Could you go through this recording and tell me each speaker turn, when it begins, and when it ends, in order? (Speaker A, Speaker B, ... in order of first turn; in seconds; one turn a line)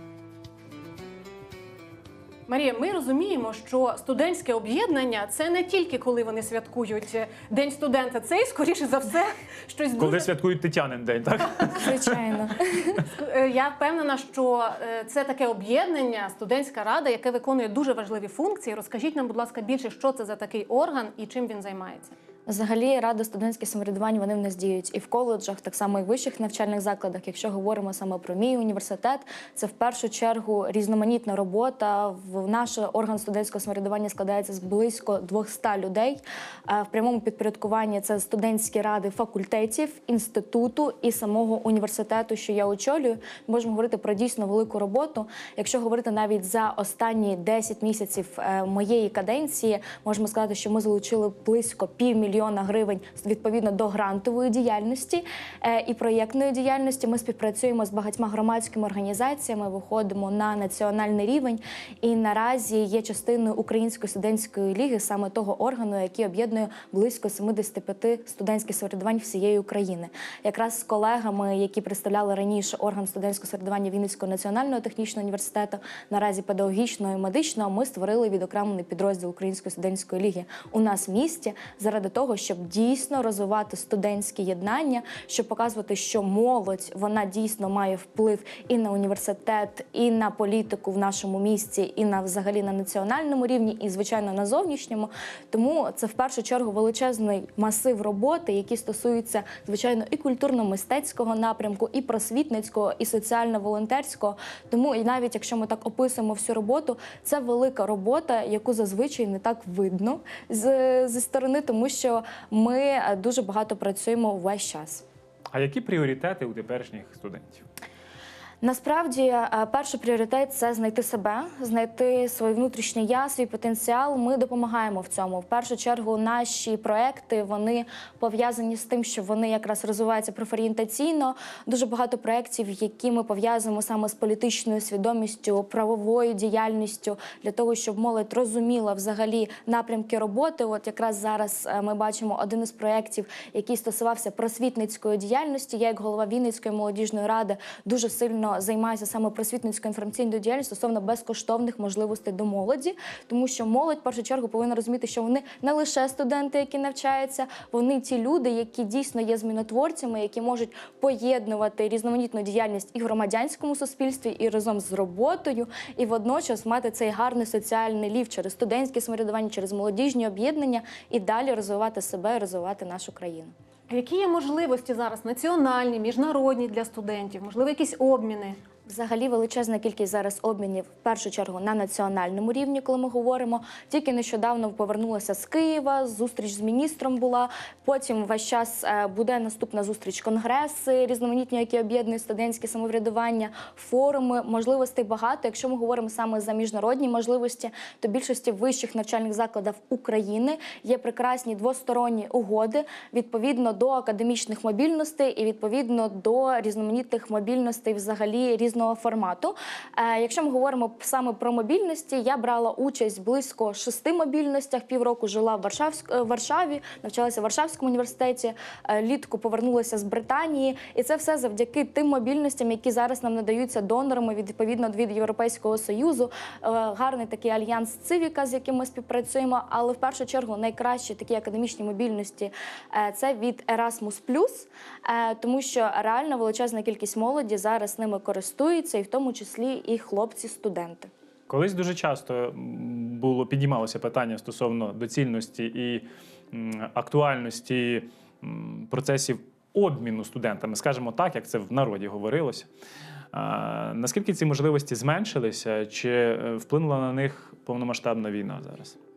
Speaker A: 2.5-10.3
Speaker B: 10.0-12.2
Speaker C: 11.8-13.1
Speaker A: 13.1-22.1
Speaker C: 22.5-115.0
Speaker B: 115.5-117.6
Speaker C: 118.6-173.5
Speaker A: 173.9-178.6
Speaker C: 178.9-241.1
Speaker B: 241.5-252.7
Speaker B: 253.3-259.0